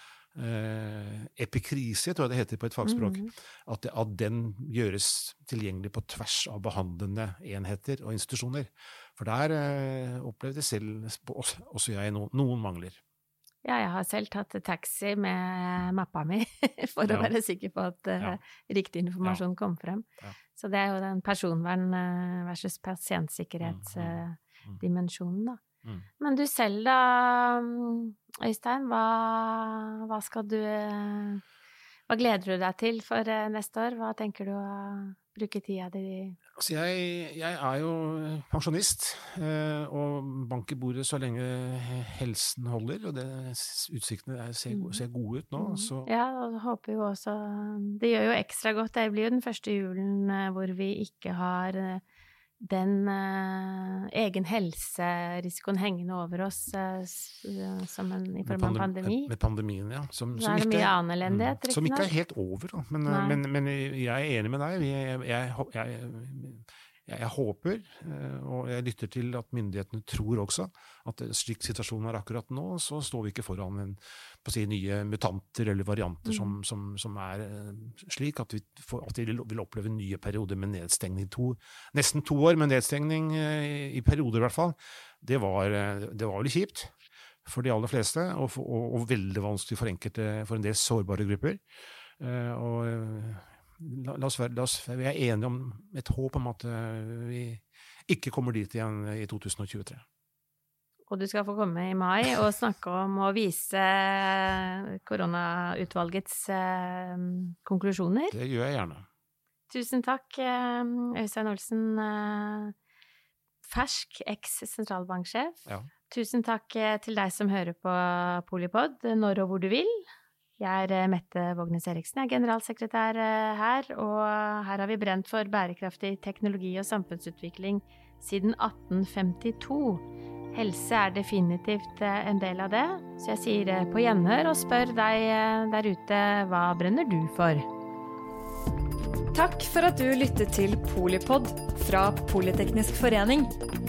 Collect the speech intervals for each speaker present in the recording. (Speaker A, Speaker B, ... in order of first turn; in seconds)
Speaker A: 0.3-13.0, 17.1-17.3, 23.6-24.8, 36.6-46.1, 58.4-86.9, 87.4-91.6, 92.2-100.0, 108.3-109.0
Speaker B: 2.8-3.3, 13.6-25.6, 26.2-31.4, 32.1-36.4, 44.7-45.0, 45.6-52.0, 52.6-59.3, 60.3-62.1, 63.1-63.4, 76.2-76.5, 101.1-108.3, 109.7-112.7, 113.6-120.0, 120.6-137.7
Speaker C: 139.3-143.5